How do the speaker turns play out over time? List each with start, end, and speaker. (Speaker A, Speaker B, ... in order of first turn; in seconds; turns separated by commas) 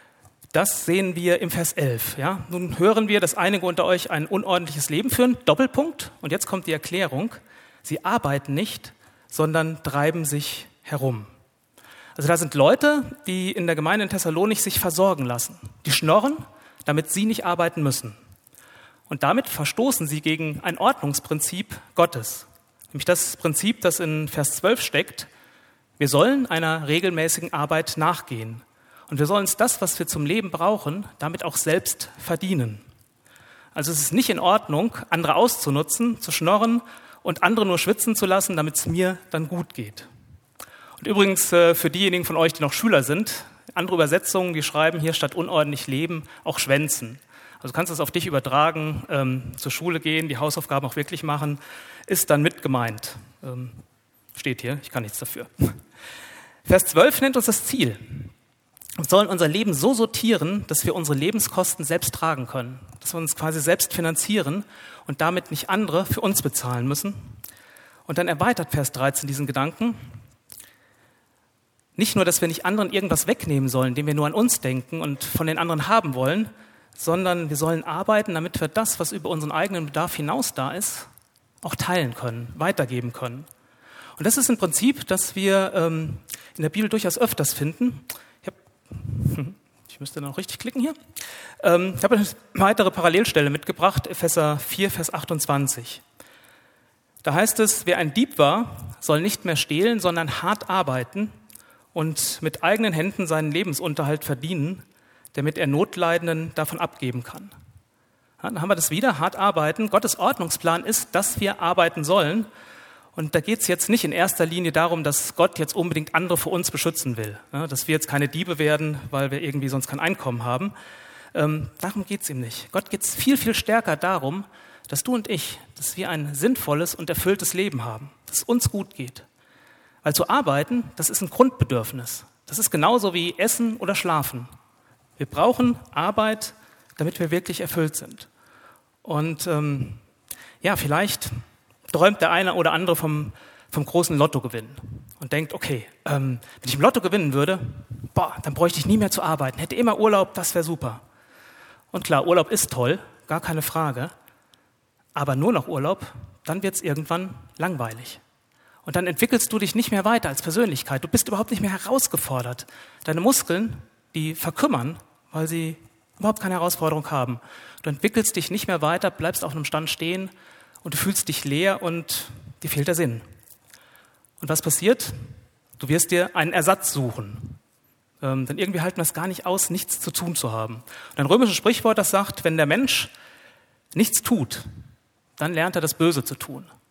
Speaker A: 0.5-11.3, Speaker A: 12.2-18.2, Speaker A: 19.1-25.3, Speaker A: 26.0-32.8, Speaker A: 33.8-40.1, Speaker A: 41.0-53.8, Speaker A: 54.4-55.8, Speaker A: 56.6-58.3, Speaker A: 59.0-67.4, Speaker A: 68.1-70.0, Speaker A: 72.0-81.1, Speaker A: 81.6-83.5, Speaker A: 84.2-91.0, Speaker A: 91.6-96.0, Speaker A: 97.2-101.3, Speaker A: 101.9-107.5, Speaker A: 108.4-112.5, Speaker A: 113.2-120.7, Speaker A: 121.3-129.3, Speaker A: 130.0-134.5, Speaker A: 135.2-138.3, Speaker A: 139.0-140.0, Speaker A: 140.6-141.3, Speaker A: 141.9-151.0, Speaker A: 151.9-154.1, Speaker A: 155.2-158.2, Speaker A: 158.8-170.3, Speaker A: 170.8-173.2, Speaker A: 174.4-175.2, Speaker A: 175.8-177.6, Speaker A: 178.2-183.1, Speaker A: 183.9-184.7, Speaker A: 185.4-186.7